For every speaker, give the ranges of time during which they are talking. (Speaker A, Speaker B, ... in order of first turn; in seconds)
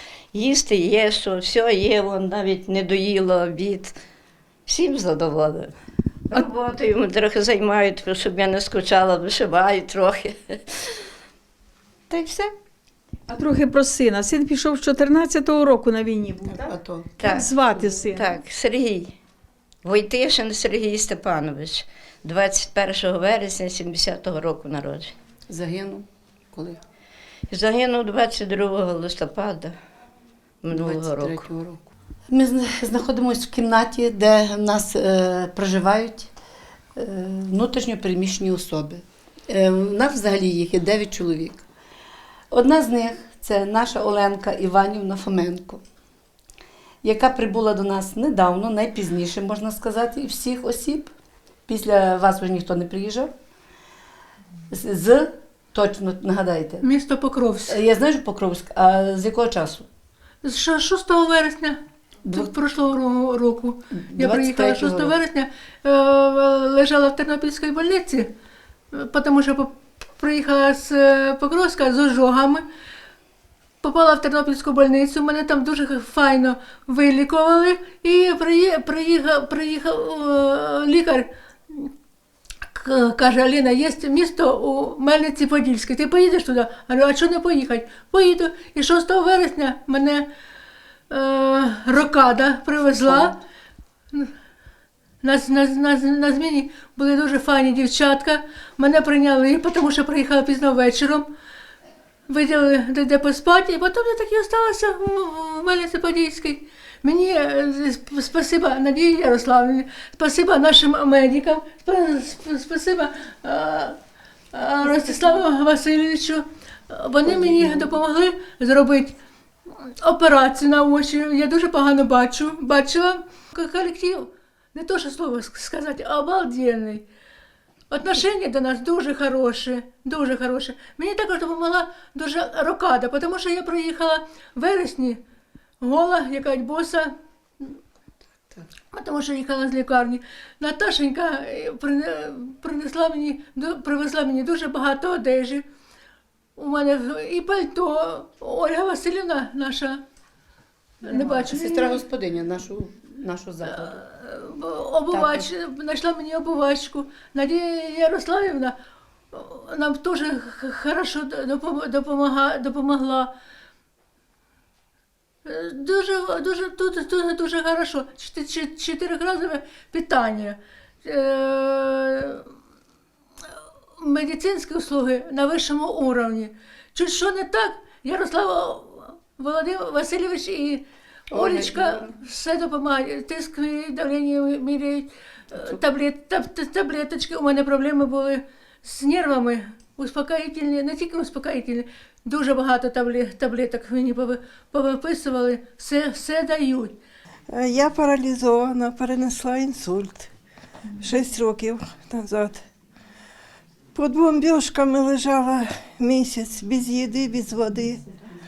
Speaker A: 0.3-4.0, 4.7-5.7, 6.3-10.6, 12.1-12.5, 17.2-19.1, 19.8-25.1, 27.5-29.8, 30.6-31.5
Speaker B: 13.3-18.3
Speaker C: 16.5-17.1, 25.5-26.8, 30.7-36.3, 37.0-41.6, 42.5-45.8, 47.0-51.1, 51.7-53.3, 54.7-56.8, 57.7-59.9, 62.2-62.5, 64.0-65.2, 93.0-93.3, 151.0-154.0, 155.1-155.5, 181.3-182.1
Speaker D: 56.8-57.8, 60.4-61.8, 62.3-68.3, 68.9-72.6, 73.8-81.9, 82.7-90.2, 91.1-93.3, 95.2-101.3, 102.3-114.0, 114.5-119.1, 120.0-127.0, 127.9-135.2, 135.8-137.7, 138.9-145.6, 146.6-150.0, 151.0-152.0, 154.2-158.8, 159.3-163.3, 165.4-172.4, 174.0-197.0
Speaker E: 197.5-200.3, 201.0-202.6, 203.9-208.0